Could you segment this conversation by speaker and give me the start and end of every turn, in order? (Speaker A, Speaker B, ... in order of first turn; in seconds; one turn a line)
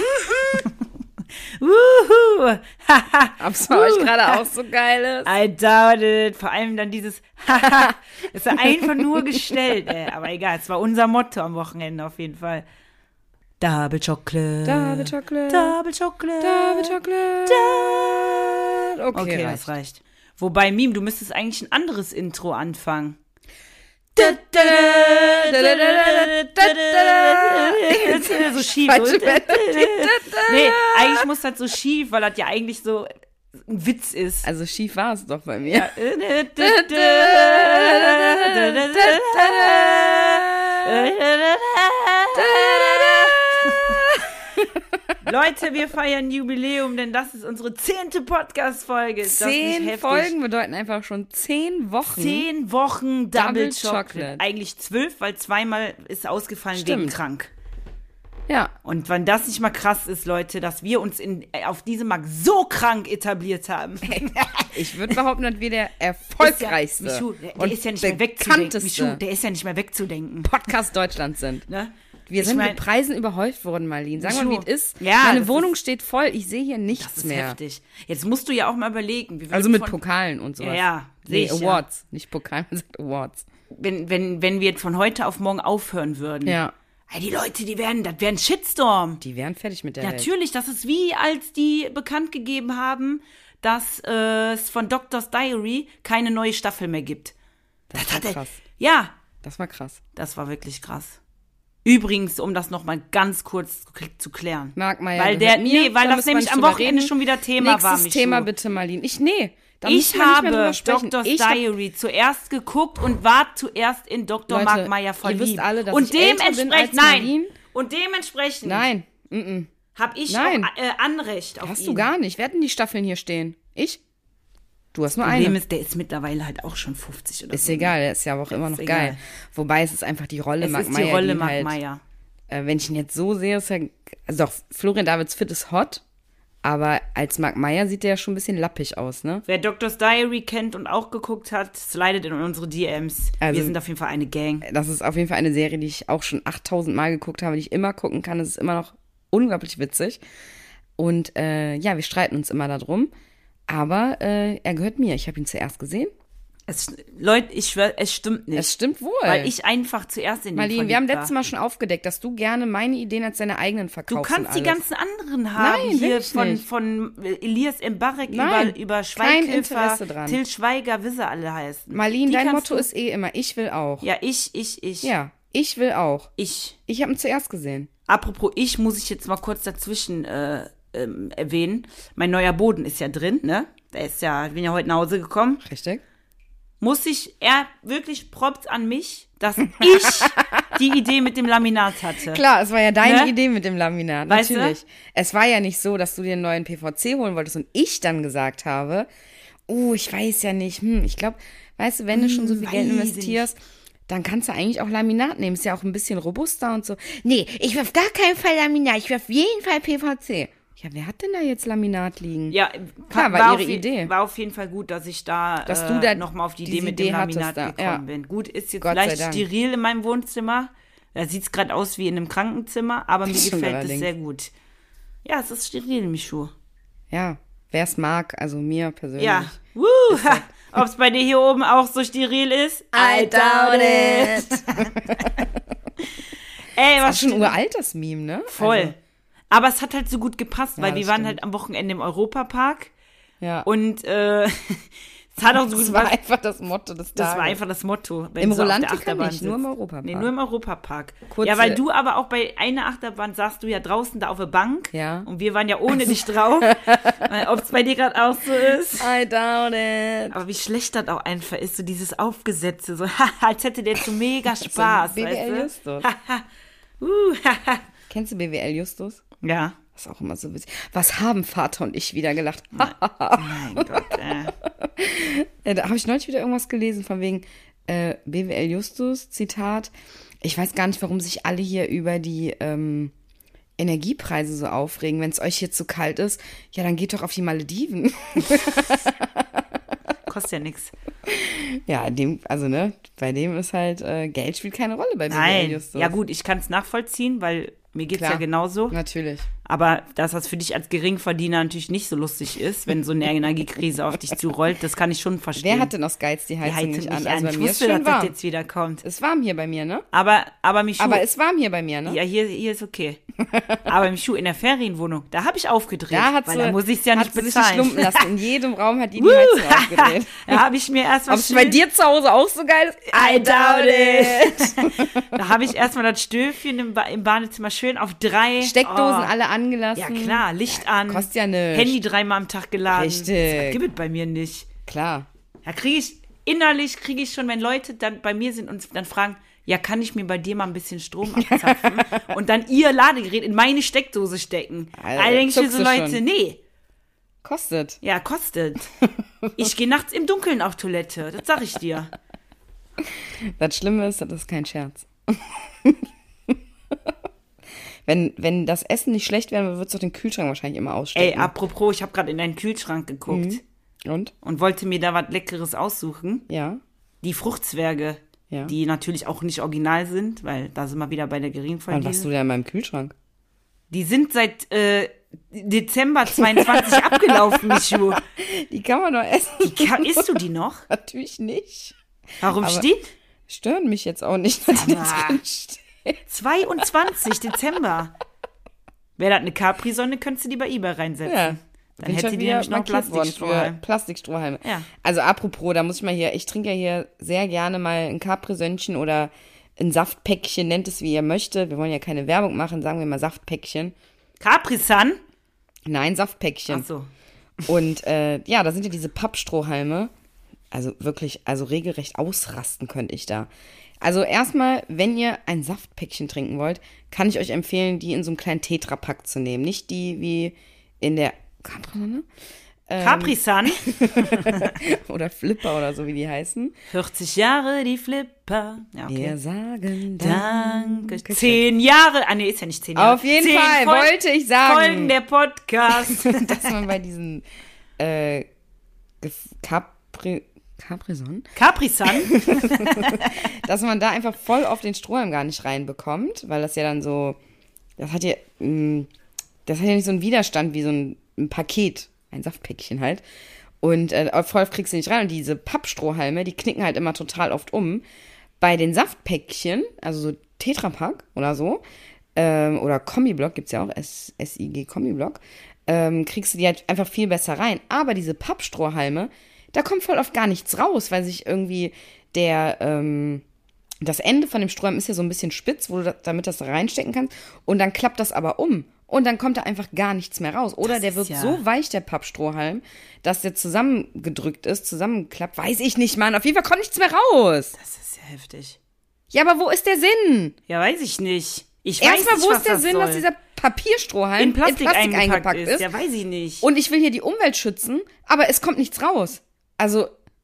Speaker A: 0.4-0.7
Speaker A: 1.6-4.4
Speaker B: 3.4-5.3
Speaker A: 5.2-12.7
Speaker B: 7.6-7.9
Speaker B: 8.5-9.5
Speaker A: 13.6-18.5
Speaker B: 14.7-15.8
Speaker B: 16.4-19.6
Speaker A: 19.1-23.2
Speaker A: 24.2-33.1
Speaker B: 24.2-31.3
Speaker A: 33.7-34.5
Speaker B: 34.4-35.9
Speaker A: 35.7-44.0
Speaker B: 36.6-41.1
Speaker B: 42.4-45.1
Speaker A: 45.2-50.3
Speaker B: 49.2-52.5
Speaker A: 52.1-57.5
Speaker B: 53.4-54.4
Speaker B: 56.7-57.2
Speaker B: 58.5-58.7
Speaker A: 58.9-65.2
Speaker B: 64.1-69.2
Speaker A: 66.4-70.5
Speaker B: 70.4-71.7
Speaker A: 71.7-72.8
Speaker B: 72.3-77.6
Speaker A: 74.2-75.7
Speaker A: 77.0-80.0
Speaker B: 79.5-83.5
Speaker A: 80.6-81.8
Speaker A: 83.7-86.6
Speaker B: 86.5-86.7
Speaker A: 87.1-89.2
Speaker B: 89.2-90.3
Speaker A: 90.0-97.3
Speaker B: 97.9-98.6
Speaker A: 97.9-99.2
Speaker B: 99.4-100.0
Speaker A: 100.2-101.2
Speaker A: 101.8-108.5
Speaker B: 104.8-111.7
Speaker A: 109.8-118.9
Speaker B: 114.5-117.5
Speaker B: 118.7-119.7
Speaker A: 120.0-122.1
Speaker B: 120.3-120.7
Speaker B: 121.6-124.0
Speaker B: 124.9-125.6
Speaker A: 125.2-127.9
Speaker B: 127.5-131.8
Speaker A: 128.5-129.2
Speaker A: 130.6-132.0
Speaker B: 132.5-136.0
Speaker B: 136.6-139.4
Speaker A: 139.5-144.7
Speaker B: 143.4-143.8
Speaker B: 144.6-150.2
Speaker B: 151.0-153.1
Speaker B: 153.7-156.1
Speaker A: 156.7-158.7
Speaker B: 158.6-159.5
Speaker A: 159.2-161.3
Speaker B: 160.6-164.8
Speaker A: 164.1-172.9
Speaker B: 165.6-166.6
Speaker B: 168.3-170.4
Speaker B: 171.9-174.1
Speaker A: 174.0-175.1
Speaker B: 175.0-176.3
Speaker A: 176.4-176.8
Speaker B: 176.9-177.9
Speaker A: 178.1-185.6
Speaker B: 185.6-186.0
Speaker A: 186.8-192.4
Speaker B: 189.8-190.6
Speaker B: 192.3-199.1
Speaker A: 193.0-193.3
Speaker A: 194.3-194.8
Speaker B: 199.7-203.6
Speaker A: 202.1-203.5
Speaker B: 204.1-212.6
Speaker A: 212.5-224.5
Speaker B: 213.1-214.1
Speaker B: 215.7-218.0
Speaker B: 218.8-219.5
Speaker B: 223.3-224.1
Speaker A: 225.2-226.5
Speaker B: 227.1-229.6
Speaker A: 229.2-235.4
Speaker B: 230.1-230.5
Speaker B: 232.9-235.5
Speaker A: 236.7-237.6
Speaker B: 237.1-238.9
Speaker A: 238.5-238.9
Speaker A: 239.5-242.9
Speaker B: 240.8-241.4
Speaker B: 243.4-243.7
Speaker A: 243.7-246.1
Speaker B: 245.5-247.6
Speaker A: 247.2-259.1
Speaker B: 248.4-250.3
Speaker B: 251.3-251.8
Speaker B: 254.9-255.3
Speaker B: 255.9-257.3
Speaker B: 259.0-260.4
Speaker A: 260.3-266.4
Speaker B: 264.6-266.1
Speaker A: 267.0-267.8
Speaker B: 268.1-269.2
Speaker A: 269.4-269.8
Speaker B: 269.9-274.1
Speaker A: 272.8-274.6
Speaker B: 274.6-283.1
Speaker B: 283.8-289.6
Speaker A: 290.3-290.9
Speaker B: 291.3-296.2
Speaker A: 295.3-299.0
Speaker B: 298.1-299.5
Speaker A: 299.6-305.9
Speaker B: 305.6-308.3
Speaker A: 306.6-309.0
Speaker B: 309.0-310.1
Speaker A: 310.1-311.2
Speaker B: 311.0-312.2
Speaker A: 312.1-313.2
Speaker B: 313.4-313.8
Speaker A: 313.9-318.3
Speaker B: 316.1-320.6
Speaker A: 319.2-321.8
Speaker B: 321.3-325.4
Speaker A: 323.1-329.3
Speaker B: 328.6-332.0
Speaker A: 330.0-334.7
Speaker B: 332.9-333.8
Speaker B: 334.9-335.3
Speaker A: 335.6-346.6
Speaker B: 341.4-342.1
Speaker B: 345.0-346.2
Speaker B: 347.4-348.0
Speaker A: 348.0-348.9
Speaker A: 349.6-352.1
Speaker B: 353.0-357.1
Speaker B: 358.1-361.5
Speaker A: 361.1-363.6
Speaker B: 363.3-364.3
Speaker A: 364.4-366.4
Speaker B: 366.5-366.8
Speaker A: 367.2-372.3
Speaker B: 371.9-373.1
Speaker A: 373.9-378.2
Speaker B: 376.4-380.4
Speaker A: 379.6-380.9
Speaker B: 380.9-382.0
Speaker A: 382.4-383.1
Speaker B: 382.5-382.9
Speaker B: 383.5-386.2
Speaker A: 384.7-385.4
Speaker A: 386.3-388.1
Speaker A: 389.2-393.8
Speaker B: 391.2-403.9
Speaker A: 404.4-405.2
Speaker B: 405.9-406.9
Speaker A: 406.7-407.1
Speaker B: 407.7-410.1
Speaker B: 410.7-413.5
Speaker B: 414.0-422.3
Speaker B: 422.9-426.7
Speaker A: 423.0-424.8
Speaker A: 426.9-429.4
Speaker B: 429.1-431.6
Speaker A: 430.2-436.7
Speaker B: 433.0-435.1
Speaker B: 436.0-437.4
Speaker B: 438.0-438.5
Speaker B: 439.2-441.5
Speaker A: 441.6-443.5
Speaker B: 442.1-447.4
Speaker B: 448.0-449.1
Speaker B: 449.7-453.2
Speaker B: 453.8-458.0
Speaker B: 458.6-461.8
Speaker B: 462.4-473.4
Speaker B: 474.0-487.7
Speaker A: 480.9-481.6
Speaker A: 487.8-488.8
Speaker B: 489.3-490.6
Speaker A: 490.7-493.2
Speaker B: 492.0-495.9
Speaker A: 494.4-496.6
Speaker B: 496.6-500.1